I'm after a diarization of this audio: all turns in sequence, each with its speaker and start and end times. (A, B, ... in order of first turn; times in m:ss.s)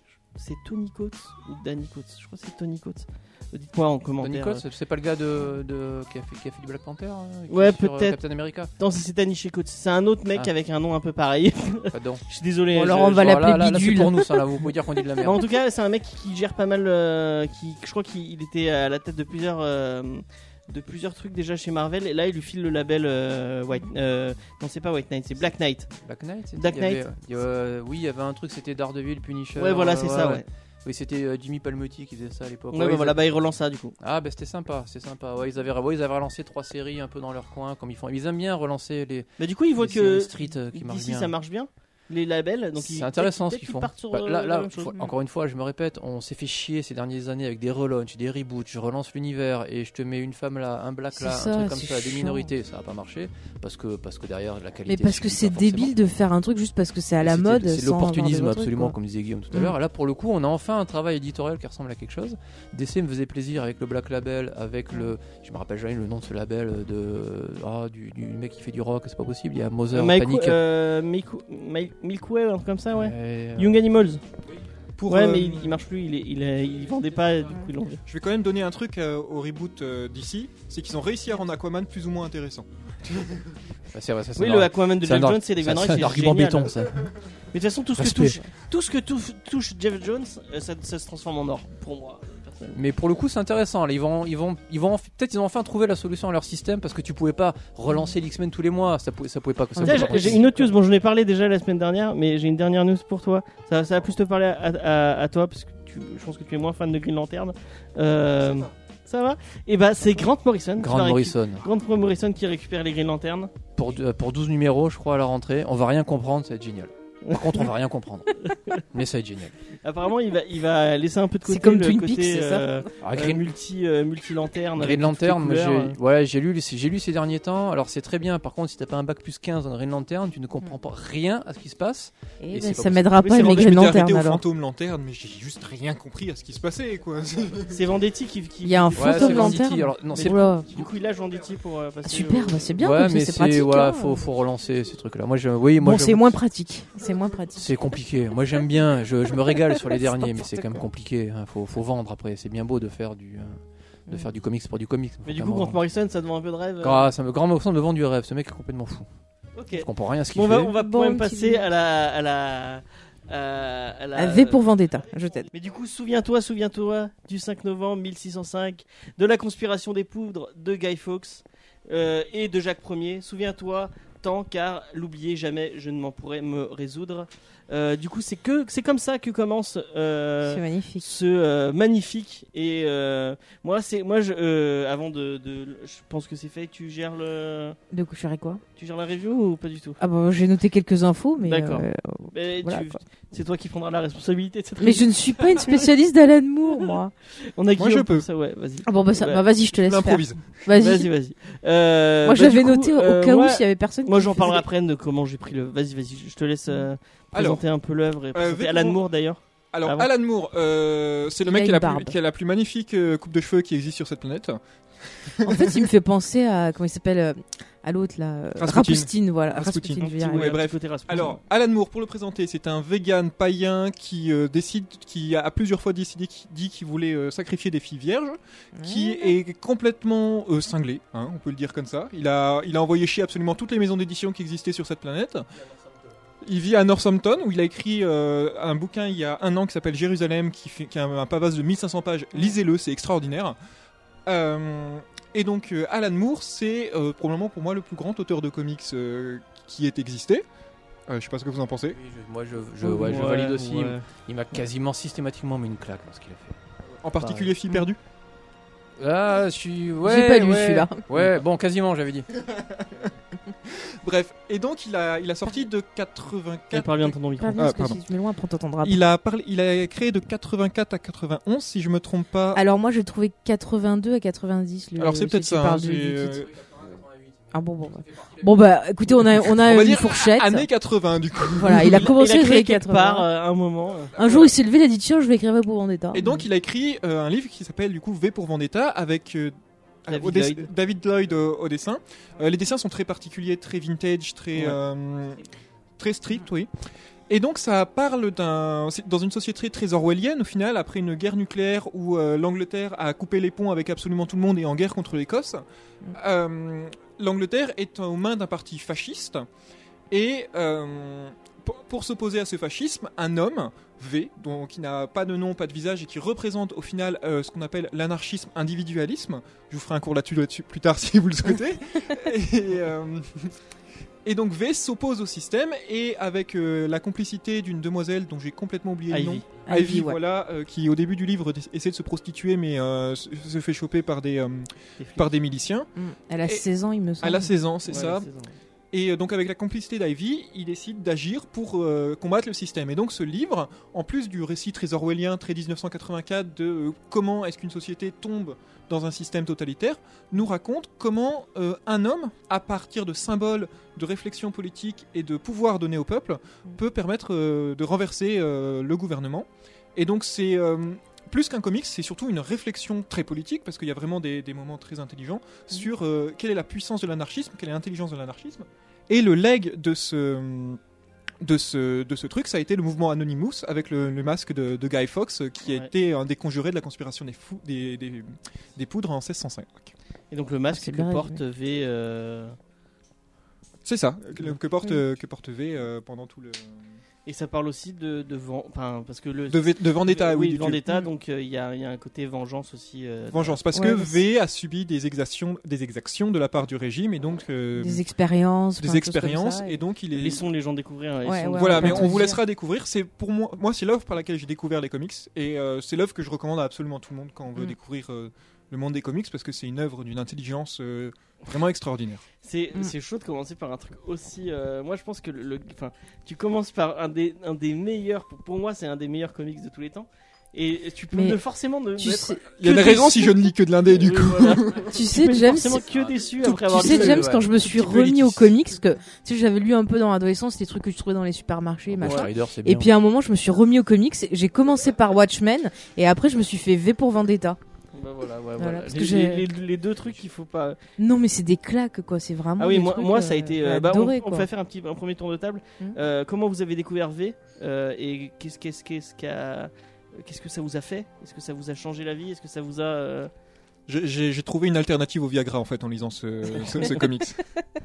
0:00.3-0:04.6 A
0:04.2-0:08.7 B
0:07.5-0:08.2 A
0:08.8-0:13.3 A
0:11.9-0:12.2 B
0:12.7-0:14.4 C
0:12.9-0:15.4 B
0:15.2-0:25.9 A
0:25.9-0:33.3 B
0:26.6-0:27.0 A
0:29.6-0:30.4 A
0:32.7-0:34.0 A
0:34.0-0:41.3 B
0:39.4-0:45.0 A
0:42.8-0:55.9 B
0:51.2-0:52.5 C
0:54.9-0:58.9 C
0:57.2-1:10.6 B
1:09.9-1:14.2 A
1:12.9-1:13.8 B
1:15.0-1:15.8 D
1:15.1-1:18.0 A
1:18.1-1:23.6 D
1:23.9-1:27.2 B
1:24.4-1:32.8 A
1:28.0-1:28.4 B
1:32.7-1:40.4 B
1:39.8-1:40.5 C
1:39.8-1:53.5 A
1:50.8-1:51.6 B
1:53.8-1:59.6 B
1:57.2-1:57.6 A
1:58.4-1:58.8 A
1:59.8-2:06.0 A
2:01.4-2:02.8 C
2:03.0-2:03.4 B
2:04.8-2:13.3 B
2:12.4-2:14.4 C
2:13.2-2:17.9 D
2:17.7-2:22.7 A
2:18.6-2:20.7 C
2:18.9-2:20.4 B
2:22.1-2:24.2 C
2:22.8-2:26.4 B
2:25.8-2:27.7 C
2:27.5-2:35.8 B
2:29.6-2:30.8 C
2:35.2-2:37.1 A
2:36.8-2:39.1 B
2:39.6-2:44.6 A
2:39.7-2:40.7 B
2:40.8-2:41.7 C
2:44.2-2:45.5 C
2:45.5-3:07.8 A
3:00.4-3:01.1 C
3:07.9-3:08.6 C
3:08.8-3:10.0 A
3:10.0-3:13.0 C
3:11.4-3:15.9 A
3:14.8-3:17.1 C
3:16.8-3:19.4 A
3:17.8-3:18.3 D
3:18.8-3:21.1 C
3:19.7-3:20.5 D
3:20.7-3:30.1 A
3:22.2-3:24.6 C
3:27.3-3:27.6 D
3:28.3-3:29.0 D
3:29.7-3:35.8 D
3:31.4-3:32.2 C
3:35.4-3:40.6 C
3:38.6-3:55.5 D
3:40.0-3:41.4 A
3:48.7-3:49.4 C
3:56.4-4:03.6 D
4:04.2-4:10.4 D
4:11.1-4:12.0 D
4:11.9-4:16.6 B
4:12.8-4:14.1 A
4:17.0-4:18.0 D
4:17.1-4:17.5 B
4:19.0-4:22.3 B
4:20.0-4:21.0 C
4:22.5-4:23.1 D
4:23.7-4:28.0 D
4:26.7-4:27.7 A
4:27.4-4:29.0 C
4:28.8-4:32.6 D
4:32.5-4:36.4 C
4:35.0-4:36.5 D
4:36.5-4:38.7 B
4:37.5-4:40.7 C
4:39.4-4:42.1 D
4:41.6-4:43.3 C
4:41.7-4:44.5 A
4:44.2-4:46.4 C
4:46.1-4:49.5 D
4:50.0-4:55.5 D
4:50.1-4:50.7 A
4:54.5-4:54.8 A
4:56.0-4:56.7 D
4:57.3-5:09.5 D
5:10.1-5:23.5 D
5:24.2-5:35.9 D
5:29.1-5:29.4 A
5:29.6-5:30.2 C
5:35.0-5:35.3 A
5:36.0-5:37.5 C
5:37.2-5:38.3 D
5:37.9-5:38.5 A
5:38.9-6:10.8 D
6:11.4-6:19.9 D
6:15.6-6:15.9 A
6:20.3-6:22.6 A
6:20.7-6:21.4 C
6:23.8-6:27.0 D
6:27.2-6:33.6 A
6:29.5-6:30.8 D
6:33.3-6:38.0 D
6:33.7-6:34.2 C
6:37.8-6:39.8 C
6:38.8-6:40.4 D
6:40.1-6:42.1 A
6:41.2-6:42.4 C
6:41.6-6:52.2 D
6:52.4-7:03.2 A
7:01.1-7:01.4 C
7:02.0-7:03.3 C
7:02.5-7:04.9 D
7:03.8-7:07.3 A
7:04.9-7:05.8 C
7:05.9-7:08.5 B
7:06.4-7:17.6 C
7:11.9-7:12.9 B
7:12.0-7:12.3 A
7:17.9-7:20.8 A
7:18.6-7:19.4 C
7:21.0-7:24.5 C
7:22.6-7:33.3 A
7:33.9-7:37.4 D